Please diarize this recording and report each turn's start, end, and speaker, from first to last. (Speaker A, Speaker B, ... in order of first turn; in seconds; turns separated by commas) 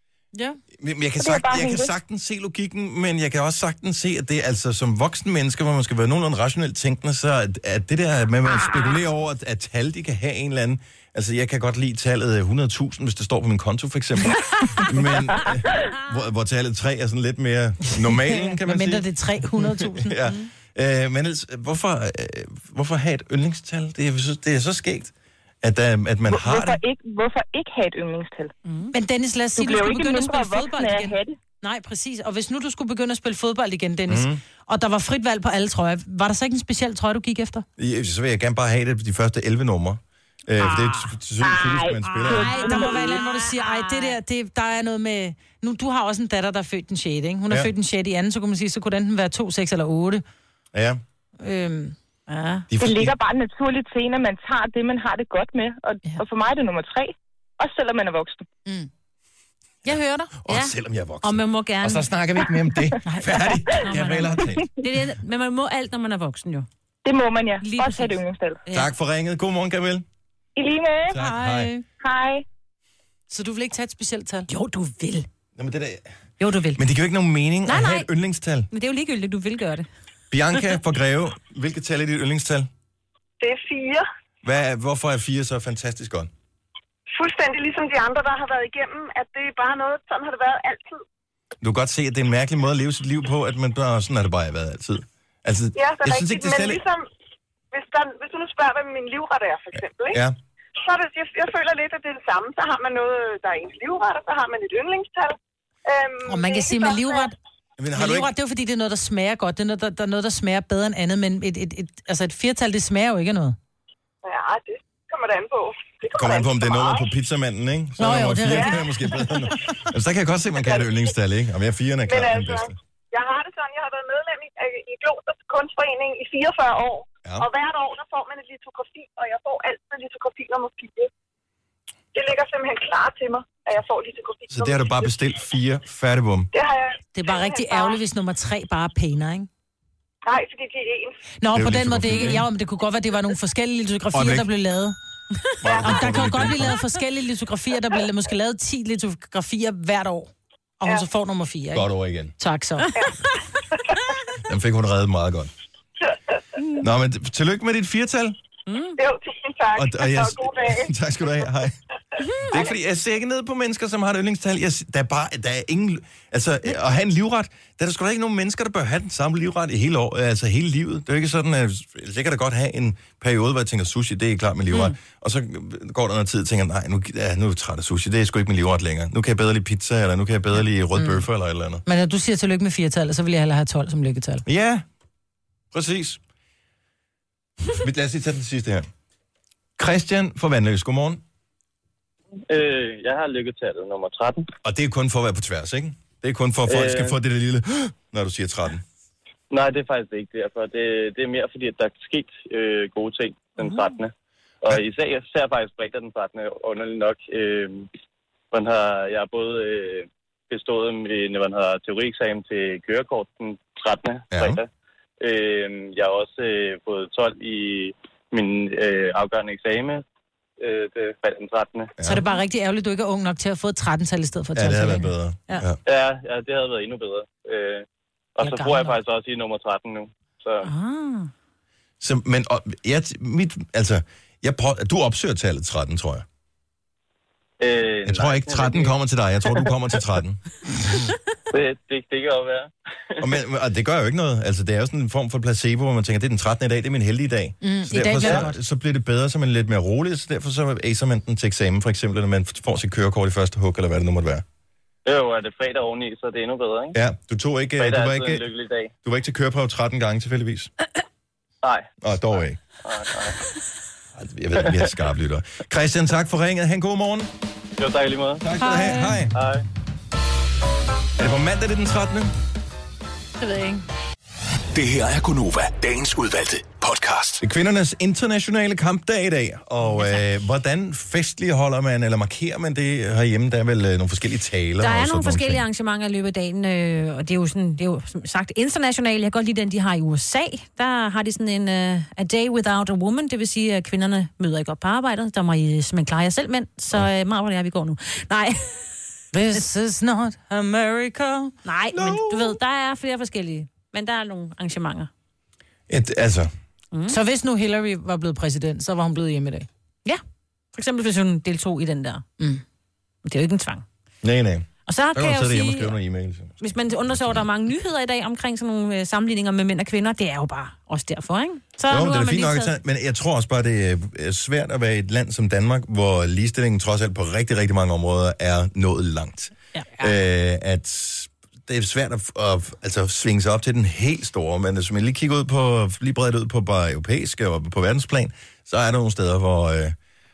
Speaker A: 0.3-0.6, Speaker B: 0.8-19.1, Speaker C: 1.2-1.9, Speaker A: 17.9-20.2, Speaker B: 19.8-26.8, Speaker C: 26.3-28.5, Speaker D: 28.6-28.9, Speaker A: 28.9-37.6, Speaker C: 29.6-31.4, Speaker B: 34.1-34.4, Speaker B: 37.8-42.7, Speaker C: 41.4-43.2, Speaker D: 42.2-44.0, Speaker A: 42.3-50.2, Speaker B: 50.7-51.0, Speaker A: 51.4-52.0, Speaker D: 52.3-52.7, Speaker B: 52.7-53.1, Speaker C: 52.8-58.5, Speaker A: 59.9-60.3, Speaker B: 60.4-64.7, Speaker D: 60.5-62.1, Speaker A: 63.0-63.4, Speaker D: 63.8-66.7, Speaker C: 67.0-68.6, Speaker D: 67.6-68.9, Speaker B: 68.7-70.0, Speaker C: 70.6-71.2, Speaker B: 71.1-71.7, Speaker A: 71.2-71.8, Speaker C: 72.0-72.5, Speaker A: 73.3-74.5, Speaker D: 74.5-75.3, Speaker B: 75.6-76.0, Speaker D: 76.4-76.8, Speaker B: 76.8-78.7, Speaker D: 77.7-78.1, Speaker D: 78.7-79.9, Speaker B: 80.3-82.7, Speaker E: 83.4-84.1, Speaker B: 84.4-86.3, Speaker E: 87.1-91.0, Speaker B: 91.6-96.8, Speaker E: 95.7-97.1, Speaker E: 97.7-100.2, Speaker B: 100.1-100.4, Speaker E: 100.8-107.3, Speaker A: 106.2-107.4, Speaker B: 107.8-108.3, Speaker A: 107.9-113.6, Speaker E: 114.2-117.1, Speaker B: 116.1-122.8, Speaker A: 118.0-119.3, Speaker E: 118.5-118.8, Speaker E: 120.6-121.1, Speaker E: 122.1-131.1, Speaker E: 132.1-135.1, Speaker B: 134.5-136.5, Speaker E: 136.5-138.0, Speaker A: 137.2-139.5, Speaker E: 140.2-141.2, Speaker A: 141.4-144.9, Speaker B: 141.6-142.4, Speaker B: 144.1-144.5, Speaker B: 145.6-146.8, Speaker E: 145.6-146.1, Speaker A: 145.8-152.9, Speaker B: 151.7-152.3, Speaker E: 152.9-154.0, Speaker B: 154.4-155.5, Speaker B: 156.8-158.4, Speaker D: 158.7-159.0, Speaker E: 159.0-160.9, Speaker B: 159.8-161.8, Speaker D: 162.2-162.6, Speaker B: 162.5-181.8, Speaker A: 181.9-184.4, Speaker B: 184.5-184.8, Speaker B: 185.7-186.2, Speaker B: 187.8-188.9, Speaker B: 189.8-191.2, Speaker F: 192.5-194.5, Speaker B: 194.6-198.8, Speaker F: 196.7-197.1, Speaker F: 199.5-204.1, Speaker F: 204.6-207.9, Speaker F: 208.5-214.7, Speaker B: 214.3-214.6, Speaker F: 215.2-220.0, Speaker F: 220.6-221.9, Speaker B: 222.0-222.2, Speaker A: 222.0-225.7, Speaker B: 224.6-225.8, Speaker F: 225.9-227.8, Speaker F: 228.4-230.7, Speaker A: 228.4-229.0, Speaker D: 230.6-231.3, Speaker B: 232.0-236.2, Speaker F: 237.6-238.9, Speaker B: 238.1-240.4, Speaker F: 241.5-243.2, Speaker B: 243.2-254.4, Speaker A: 247.6-248.6, Speaker F: 255.1-257.0, Speaker B: 256.9-258.5, Speaker F: 257.8-258.9, Speaker B: 259.0-260.7, Speaker F: 261.6-261.9, Speaker B: 262.0-262.6, Speaker F: 262.8-263.4, Speaker B: 264.2-267.3, Speaker F: 267.8-268.5, Speaker B: 268.4-269.4, Speaker A: 268.6-269.2, Speaker F: 269.3-269.6, Speaker B: 271.2-272.3, Speaker A: 273.4-273.8, Speaker G: 274.7-277.4, Speaker B: 277.4-285.6, Speaker D: 280.0-280.2, Speaker D: 284.8-298.9, Speaker A: 299.3-301.5, Speaker D: 301.6-305.1, Speaker B: 301.9-302.6, Speaker B: 305.9-306.5, Speaker D: 306.9-307.2, Speaker A: 307.1-309.7, Speaker D: 310.8-312.2, Speaker D: 313.2-313.8, Speaker B: 314.2-316.6, Speaker D: 314.9-315.9, Speaker D: 316.6-322.7, Speaker B: 317.1-317.4, Speaker B: 321.9-340.0